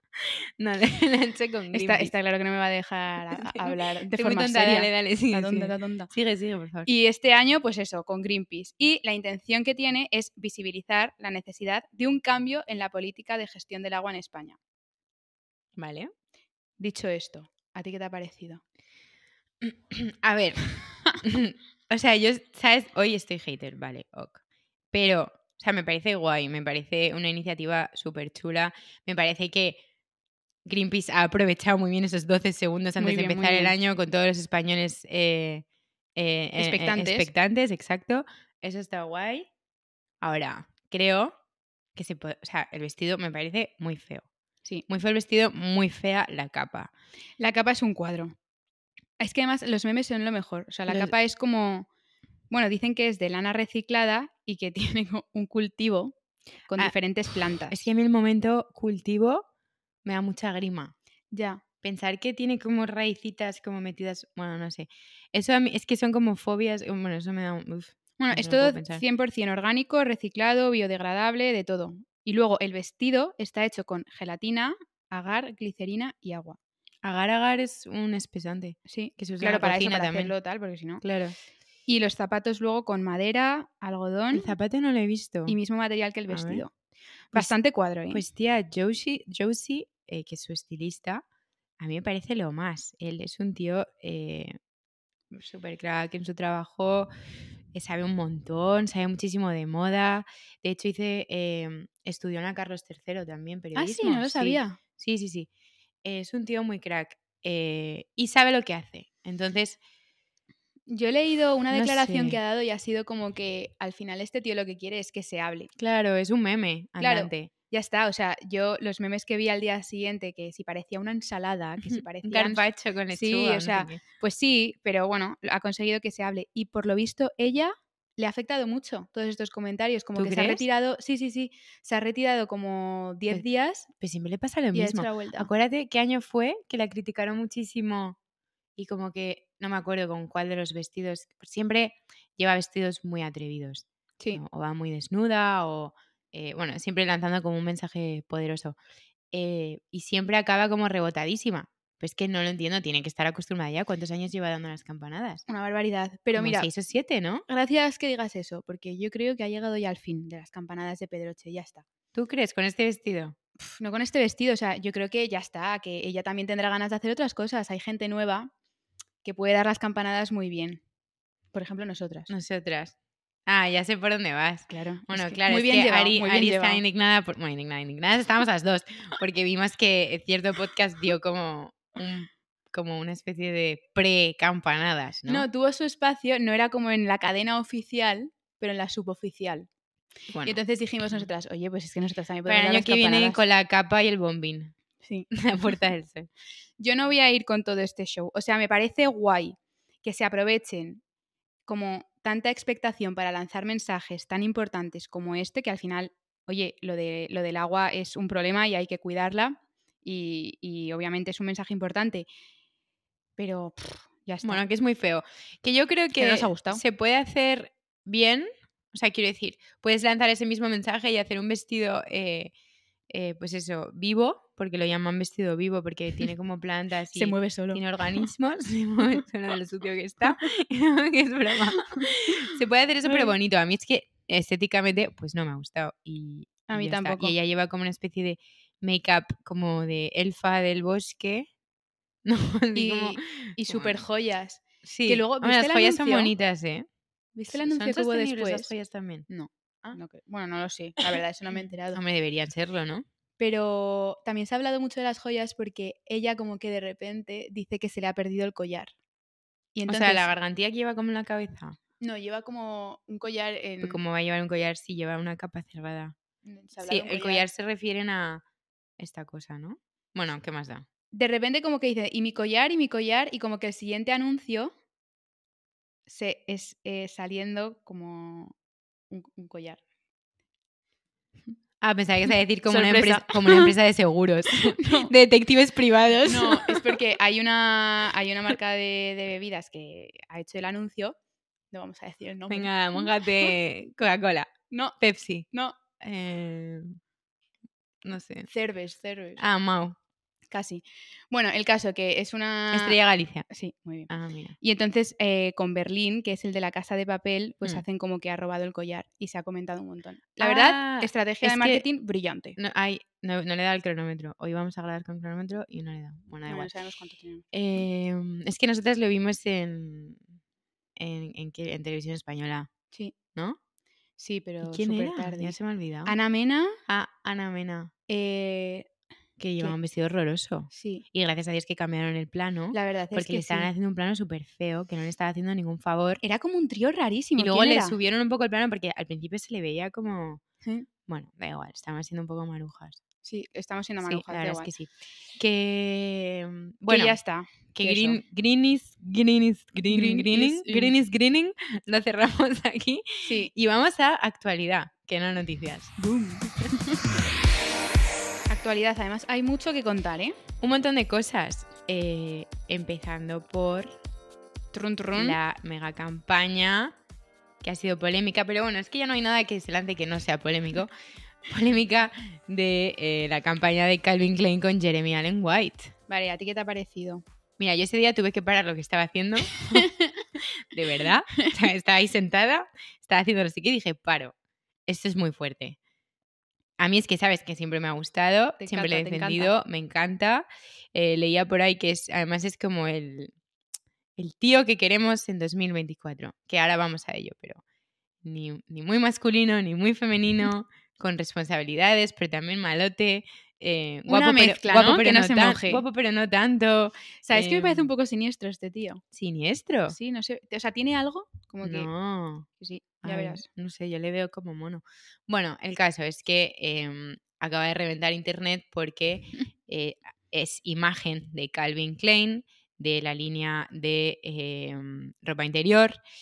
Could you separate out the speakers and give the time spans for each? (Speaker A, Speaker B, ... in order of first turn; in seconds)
Speaker A: 0.2-2.1, 3.6-6.9, 15.8-16.1, 19.6-20.7, 21.2-24.4, 24.9-29.8, 30.6-35.6, 36.2-39.5, 40.2-41.3, 42.0-44.3, 44.9-46.9, 50.9-51.1, 57.7-59.5, 60.0-60.9, 61.8-69.0, 77.0-80.3, 81.0-81.3, 84.3-85.6, 86.3-86.7, 88.1-91.2, 91.8-94.5, 95.3-97.1, 97.7-105.5, 106.0-109.8, 111.7-112.4, 115.8-117.5, 121.8-124.0, 130.2-130.6, 134.0-138.2, 138.8-148.8, 149.3-155.4, 156.3-157.4, 162.1-163.4, 172.3-173.0, 173.5-185.5, 190.3-190.6, 192.5-194.8, 195.3-196.3, 214.4-222.5, 223.1-241.5, 242.2-244.0, 244.8-246.9, 247.5-249.3, 251.9-253.1, 259.9-261.8, 263.8-266.2, 266.8-268.4, 269.0-270.9, 281.8-287.0, 292.5-295.5, 296.0-297.0, 298.0-298.5, 299.4-300.0, 302.7-303.5, 304.1-304.6, 310.4-311.9, 312.6-316.7, 317.5-320.2, 321.0-322.7, 324.6-326.1, 326.9-327.9, 329.4-336.2, 337.4-340.4, 341.1-343.0, 344.0-347.2, 347.7-355.9, 360.6-363.9, 365.1-367.0, 367.6-370.9, 371.5-375.9, 377.6-384.4, 384.9-385.8, 386.8-393.3, 394.2-397.6, 398.2-407.9, 409.1-410.0, 411.6-412.5, 413.0-426.0
Speaker B: 1.7-6.1, 6.9-14.6, 16.8-18.6, 33.0-33.8, 36.6-37.3, 47.4-48.4, 49.2-51.9, 52.5-56.2, 56.7-57.9, 61.3-61.6, 68.2-76.6, 78.9-81.0, 81.9-84.5, 85.5-86.7, 87.3-88.2, 103.8-104.8, 110.9-115.7, 117.0-133.9, 134.7-135.5, 155.5-156.7, 157.5-161.8, 163.6-168.5, 169.2-170.8, 171.5-172.3, 174.7-176.8, 185.3-189.7, 190.4-193.4, 195.0-195.3, 196.8-201.0, 201.7-212.3, 213.4-214.6, 216.2-216.8, 227.2-227.8, 231.9-232.3, 233.1-233.3, 236.7-237.3, 242.8-246.3, 247.3-248.7, 249.3-252.0, 253.4-258.9, 259.8-260.3, 262.0-264.0, 266.4-267.5, 271.1-274.7, 276.1-278.6, 279.1-279.8, 282.7-283.7, 284.5-285.1, 286.3-291.2, 291.7-293.5, 294.7-295.0, 298.5-299.4, 300.5-303.0, 303.5-304.1, 304.6-312.6, 316.5-317.5, 324.2-326.8, 328.1-328.9, 330.7-331.1, 332.7-333.7, 336.2-338.0, 343.2-344.7, 346.9-348.2, 349.9-350.9, 353.2-353.5, 356.0-357.1, 358.5-360.4, 364.7-365.4, 376.1-377.2, 379.7-380.2, 388.6-389.5, 404.1-405.8, 407.2-409.0, 409.9-411.9, 412.6-413.4